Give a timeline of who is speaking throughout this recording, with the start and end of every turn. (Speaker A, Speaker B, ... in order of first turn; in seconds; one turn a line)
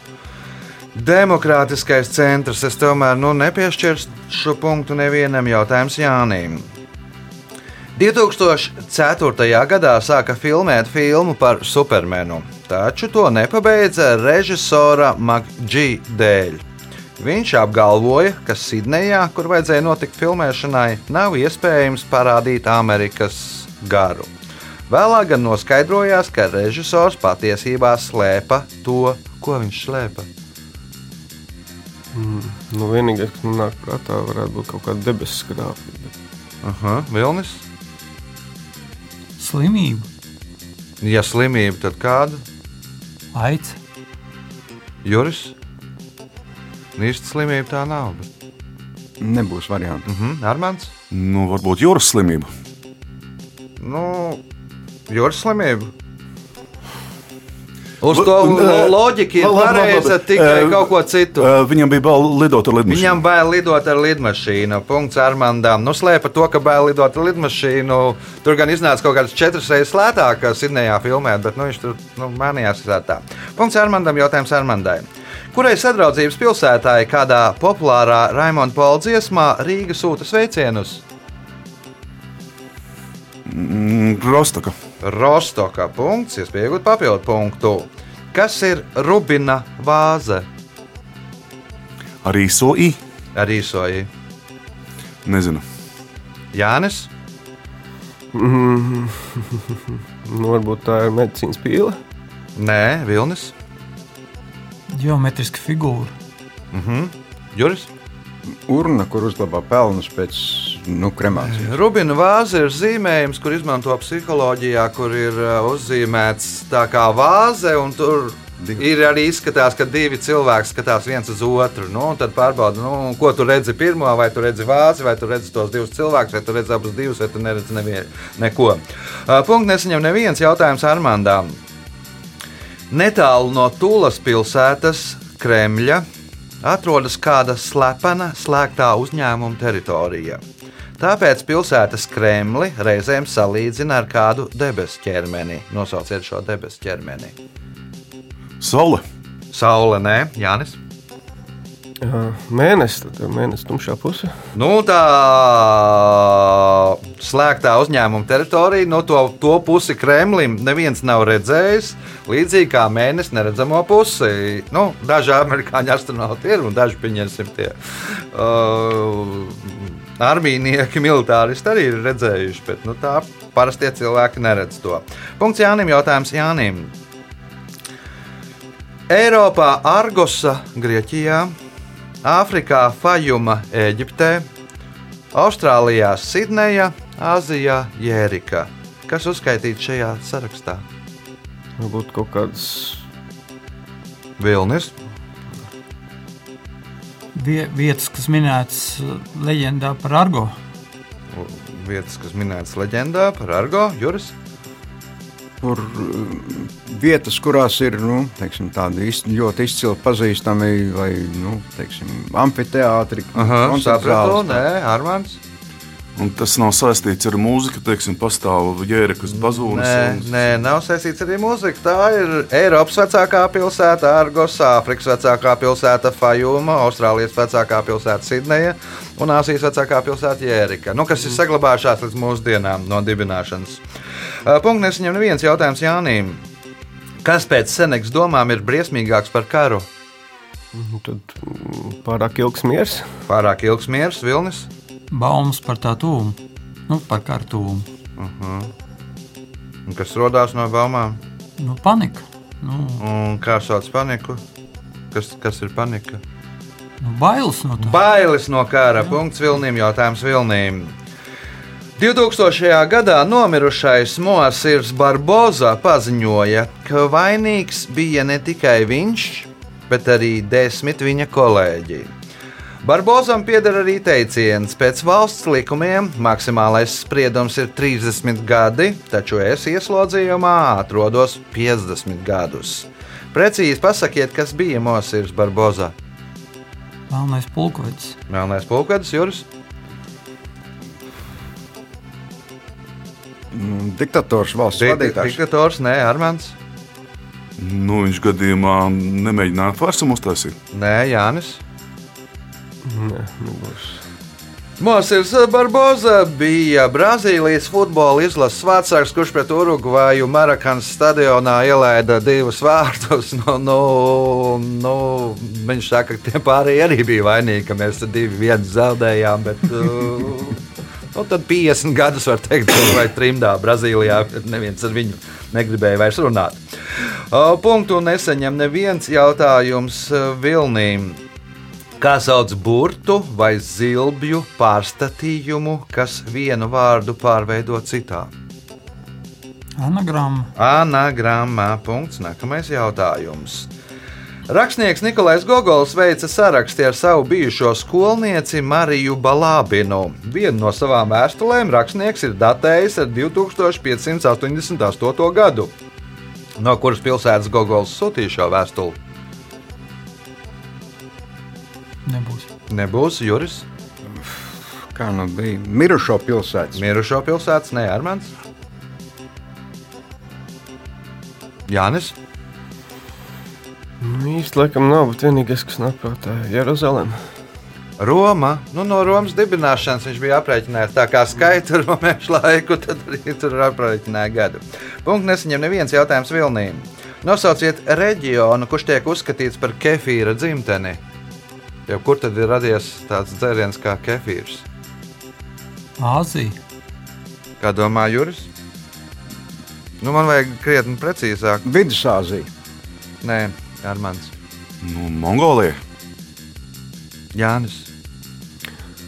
Speaker A: 0.9-6.7
Speaker A: 8.0-16.6
Speaker A: 17.2-24.3
Speaker A: 24.9-30.3
Speaker B: 32.1-36.1
Speaker A: 36.6-37.6
Speaker C: 39.4-40.1
Speaker A: 41.0-42.4
Speaker C: 43.3-43.8
Speaker A: 45.0-45.5
Speaker A: 47.0-48.3
Speaker D: 49.2-50.1
Speaker A: 50.1-50.9
Speaker E: 51.1-52.5
Speaker A: 53.8-54.4
Speaker A: 55.1-55.9
Speaker A: 58.0-61.5
Speaker E: 58.1-63.2
Speaker A: 62.9-81.0
Speaker E: 83.4-84.7
Speaker A: 85.0-90.5
Speaker E: 92.2-93.0
Speaker A: 93.3-94.1
Speaker E: 95.2-95.6
Speaker A: 96.5-97.1
Speaker B: 98.3-102.0
Speaker A: 102.5-103.5
Speaker C: 104.9-106.1
Speaker A: 106.7-107.9
Speaker D: 108.5-111.8
Speaker A: 111.4-131.6
Speaker A: 132.9-136.0
Speaker A: 136.6-140.4
Speaker A: 141.0-147.3
Speaker E: 148.6-149.0
Speaker A: 149.5-150.8
Speaker B: 152.0-154.3
Speaker A: 154.5-176.9
Speaker A: 179.1-181.5
Speaker A: 182.2-184.5
Speaker A: 185.3-190.8
Speaker B: 191.8-193.1
Speaker A: 194.4-194.9
Speaker C: 197.3-200.5
Speaker A: 201.3-204.3
Speaker D: 205.6-214.6
Speaker A: 213.3-215.4
Speaker E: 216.2-220.6
Speaker A: 219.3-233.8
Speaker A: 234.4-236.4
Speaker A: 237.2-239.9
Speaker B: 240.7-243.1
Speaker A: 243.3-244.7
Speaker C: 245.1-247.9
Speaker A: 248.2-248.7
Speaker A: 249.9-251.2
Speaker C: 251.6-253.0
Speaker A: 253.0-254.4
Speaker A: 255.1-256.2
Speaker C: 257.0-258.0
Speaker A: 257.8-260.9
Speaker A: 262.0-272.1
Speaker A: 272.8-285.9
Speaker C: 287.1-288.1
Speaker A: 288.3-289.4
Speaker D: 293.5-295.4
Speaker A: 294.8-296.6
Speaker E: 297.6-300.5
Speaker A: 300.7-301.6
Speaker B: 302.8-304.0
Speaker A: 304.8-320.6
Speaker A: 321.1-331.2
Speaker A: 332.0-338.3
Speaker C: 339.8-340.5
Speaker A: 340.6-343.7
Speaker A: 344.5-355.7
Speaker A: 356.6-359.0
Speaker C: 362.1-362.5
Speaker A: 362.7-363.6
Speaker D: 364.1-366.8
Speaker A: 366.8-368.3
Speaker A: 371.7-372.1
Speaker B: 374.0-377.2
Speaker A: 378.0-391.0
Speaker A: 391.9-394.6
Speaker C: 396.0-396.6
Speaker A: 397.6-398.5
Speaker A: 400.0-401.6
Speaker D: 401.6-402.5
Speaker A: 403.2-404.3
Speaker E: 404.8-405.8
Speaker A: 407.3-407.9